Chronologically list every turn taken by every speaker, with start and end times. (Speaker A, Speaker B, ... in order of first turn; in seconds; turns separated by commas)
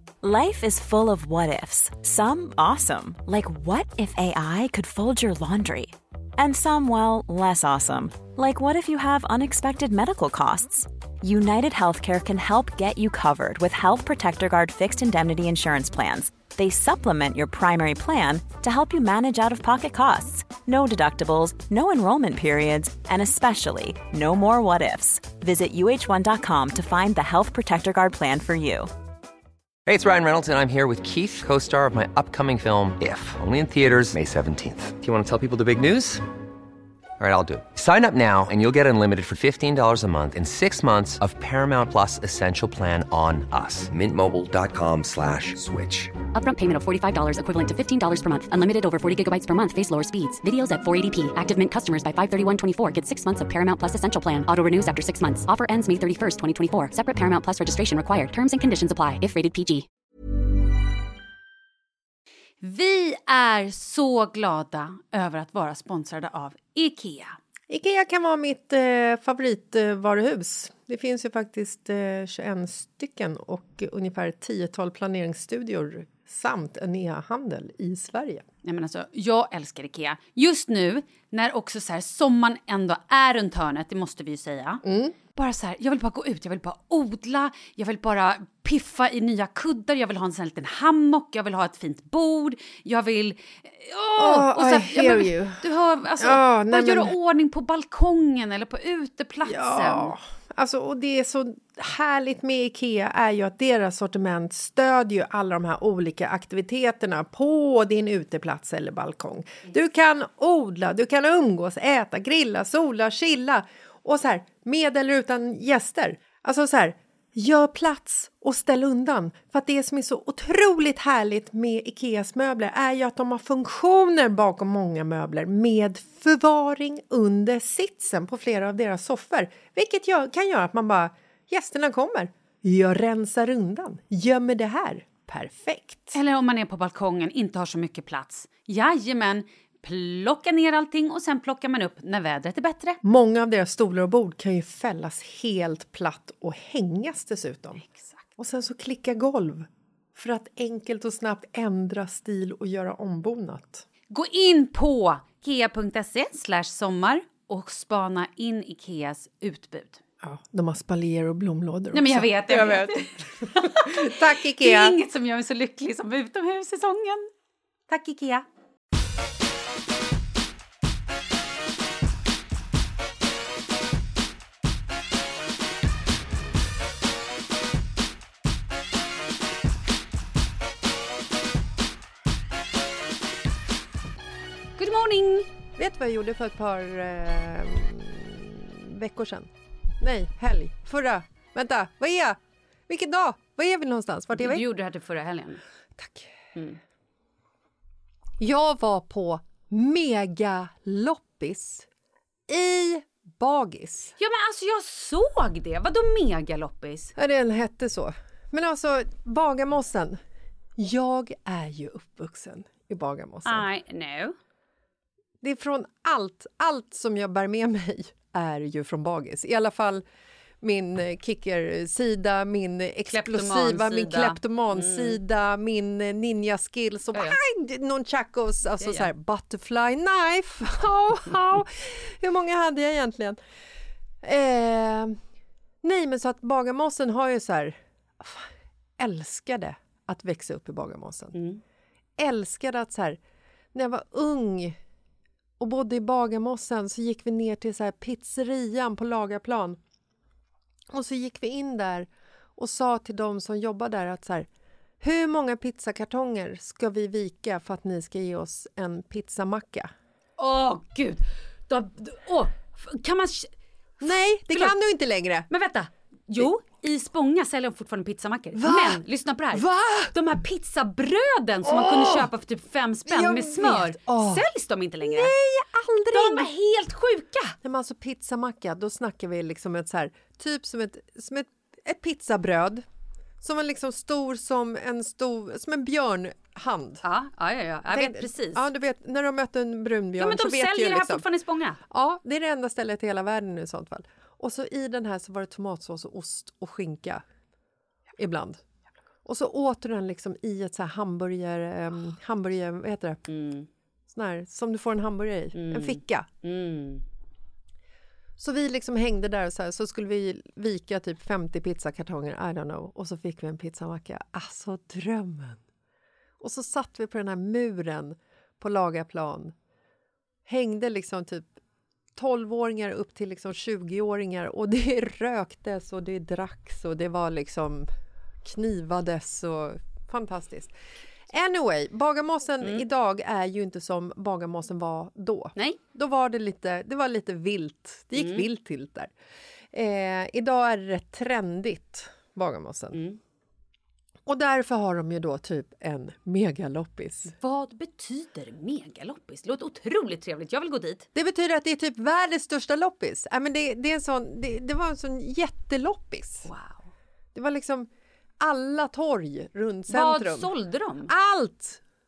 Speaker A: 0.2-28.9, Speaker B: 29.9-36.2, Speaker B: 37.2-46.1, Speaker C: 46.3-59.9, Speaker D: 62.6-67.3, Speaker E: 67.7-78.4, Speaker D: 78.6-84.8, Speaker E: 84.8-85.2, Speaker D: 85.3-100.1, Speaker E: 94.2-95.6, Speaker E: 96.2-97.1, Speaker E: 99.4-136.2, Speaker D: 136.1-143.0, Speaker E: 143.0-147.8, Speaker D: 147.8-148.2, Speaker E: 148.4-153.9, Speaker D: 154.1-160.0, Speaker E: 160.2-165.0, Speaker D: 161.9-167.3, Speaker E: 167.9-168.4, Speaker D: 184.8-185.5, Speaker E: 185.8-194.7, Speaker D: 194.3-195.6, Speaker E: 196.0-196.3, Speaker E: 198.4-201.9, Speaker E: 202.5-204.2, Speaker D: 204.2-207.1, Speaker E: 207.2-210.2, Speaker E: 210.8-213.7, Speaker D: 213.4-214.4, Speaker E: 215.4-220.0, Speaker E: 220.6-233.4, Speaker D: 223.1-225.2, Speaker D: 227.1-227.4, Speaker D: 228.8-229.1, Speaker E: 234.2-235.2, Speaker E: 235.8-241.4, Speaker D: 241.3-241.6, Speaker E: 242.2-243.2, Speaker E: 243.7-244.8, Speaker E: 245.6-249.8, Speaker E: 250.9-254.5, Speaker E: 255.0-259.9, Speaker D: 260.4-263.5, Speaker E: 264.0-265.5, Speaker D: 264.0-264.8, Speaker D: 265.5-275.3, Speaker E: 268.5-270.1, Speaker E: 271.6-272.3, Speaker E: 273.1-274.4, Speaker E: 275.0-276.5, Speaker D: 276.1-277.6, Speaker E: 277.6-282.9, Speaker E: 283.4-287.0, Speaker D: 287.0-288.7, Speaker E: 287.9-291.2, Speaker D: 290.2-291.8, Speaker E: 291.9-297.2, Speaker E: 298.1-298.6, Speaker E: 299.2-303.2, Speaker D: 303.3-303.7, Speaker E: 304.1-306.3, Speaker D: 305.5-307.0, Speaker E: 308.4-315.6, Speaker E: 316.4-319.5, Speaker E: 320.4-321.5, Speaker E: 322.1-327.9, Speaker E: 328.4-330.7, Speaker E: 331.3-339.1, Speaker D: 338.1-338.5, Speaker E: 339.7-343.0, Speaker D: 342.9-343.2, Speaker E: 344.2-347.3, Speaker D: 347.3-351.1, Speaker E: 351.1-356.5, Speaker D: 356.4-356.8, Speaker E: 357.3-357.9, Speaker E: 358.4-360.5, Speaker D: 359.9-361.1, Speaker E: 361.1-361.8